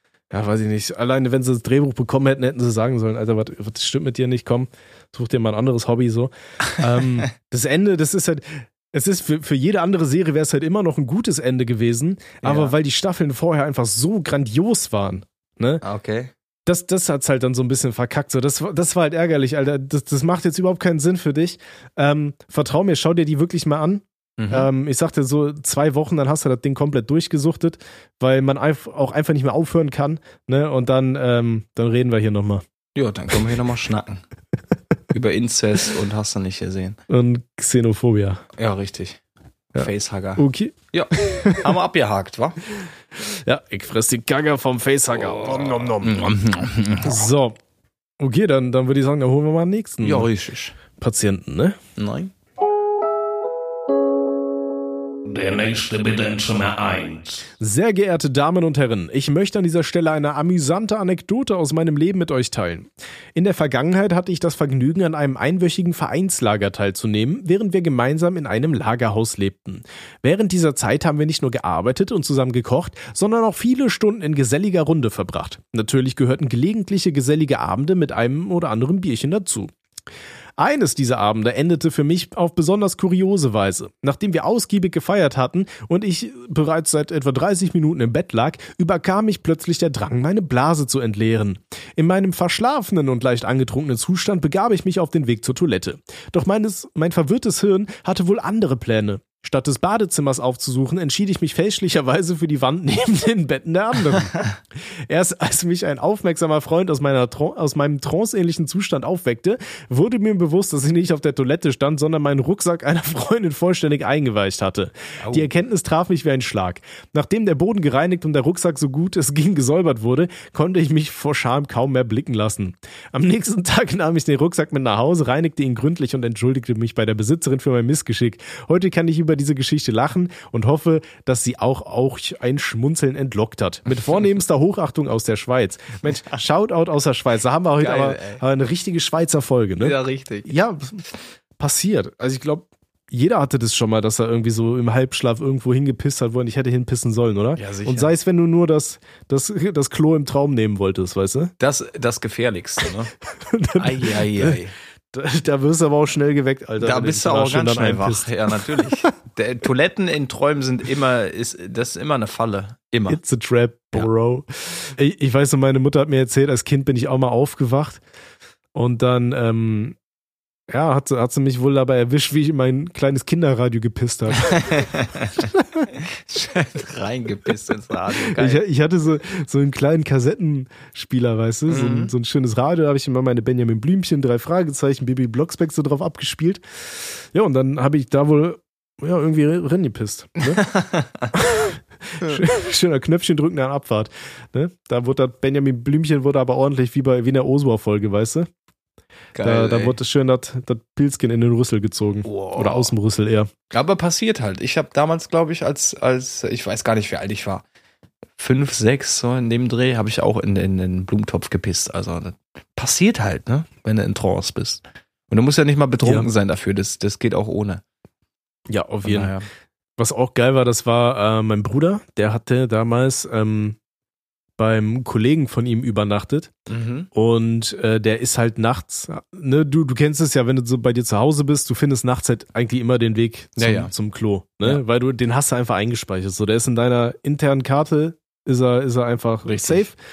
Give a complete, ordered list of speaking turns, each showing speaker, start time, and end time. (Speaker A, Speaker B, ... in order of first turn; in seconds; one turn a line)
Speaker A: 0.3-15.8
Speaker B: 12.4-12.8
Speaker B: 15.8-16.3
Speaker A: 16.7-32.6
Speaker B: 24.4-24.7
Speaker B: 33.0-34.2
Speaker B: 35.1-37.0
Speaker A: 37.1-38.4
Speaker B: 38.6-39.2
Speaker A: 39.7-41.8
Speaker B: 39.8-42.6
Speaker A: 43.2-46.3
Speaker B: 45.2-47.2
Speaker A: 47.0-47.6
Speaker A: 48.2-50.3
Speaker B: 50.0-50.8
Speaker A: 51.0-51.8
Speaker B: 52.0-52.3
Speaker C: 55.3-57.5
Speaker A: 57.6-79.7
Speaker A: 80.6-104.3
Speaker A: 105.1-141.0
Speaker B: 115.2-115.5
Speaker B: 137.8-138.4
Speaker B: 139.8-140.5
Speaker A: 141.6-151.5
Speaker B: 147.6-148.1
Speaker B: 151.6-153.1
Speaker A: 153.5-154.6
Speaker B: 153.8-154.7
Speaker A: 155.1-158.9
Speaker B: 156.8-163.2
Speaker A: 163.1-168.0
Speaker A: 168.7-170.0
Speaker A: 170.7-174.6
Speaker B: 174.5-175.4
Speaker A: 175.4-175.9
Speaker B: 176.3-178.6
Speaker A: 178.3-190.6
Speaker B: 181.7-182.1
Speaker B: 190.6-191.3
Speaker A: 191.3-198.5
Speaker B: 199.3-200.0
Speaker A: 199.4-203.5
Speaker B: 202.3-202.9
Speaker B: 203.7-207.6
Speaker B: 208.4-217.8
Speaker A: 216.0-216.3
Speaker A: 218.7-219.3
Speaker B: 219.1-219.5
Speaker A: 220.0-223.8
Speaker A: 224.6-226.5
Speaker B: 226.7-227.1
Speaker A: 227.1-240.0
Speaker B: 233.6-233.9
Speaker B: 239.4-239.9